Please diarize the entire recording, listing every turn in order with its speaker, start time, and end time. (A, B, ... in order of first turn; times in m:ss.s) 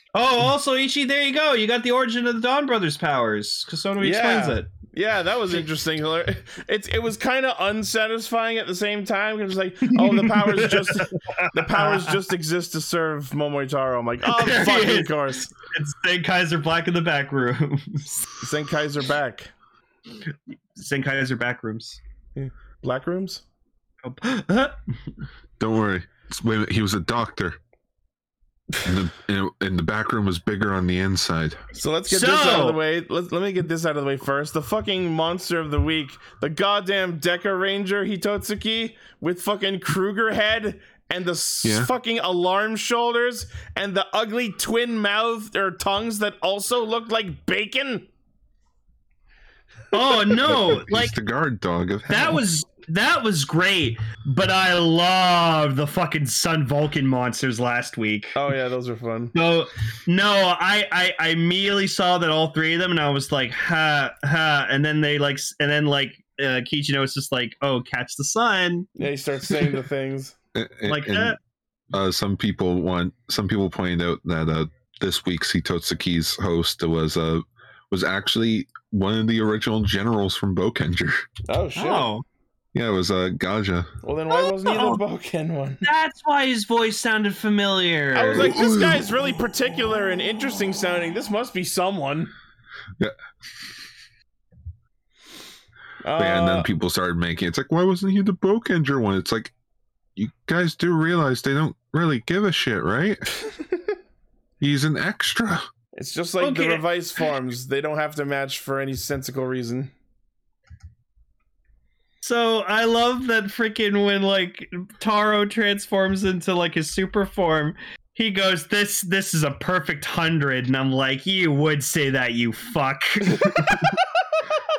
0:00.1-0:04.7 A
0:04.0-0:15.5 B
0:09.9-0:12.2 A
0:14.3-0:15.1 A
0:15.7-0:18.1 A
0:18.4-0:19.5 B
0:20.8-0:22.0 A
0:22.4-0:23.4 B
0:24.0-0:24.8 A
0:25.6-0:27.6 C
0:28.8-0:31.6 C
0:31.7-0:48.1 B
0:32.1-0:32.8 A
0:41.6-0:41.9 C
0:49.9-0:51.1 A
0:50.4-0:52.4 C
0:52.1-0:58.4 A
0:58.3-0:59.3 B
0:59.3-1:08.9 A
1:09.0-1:10.3 B
1:10.5-1:11.4 C
1:10.9-1:11.4 A
1:11.9-1:21.2 C
1:21.5-1:22.1 B
1:21.8-1:22.2 A
1:22.7-1:23.9 C
1:24.0-1:25.8 B
1:24.3-1:25.0 A
1:25.8-1:28.6 A
1:28.1-1:32.3 B
1:28.3-1:29.1 C
1:36.0-1:36.7 B
1:36.2-1:39.5 C
1:40.2-1:43.2 C
1:44.6-1:45.7 C
1:45.9-1:49.9 B
1:46.4-1:46.8 A
1:52.2-2:04.0 A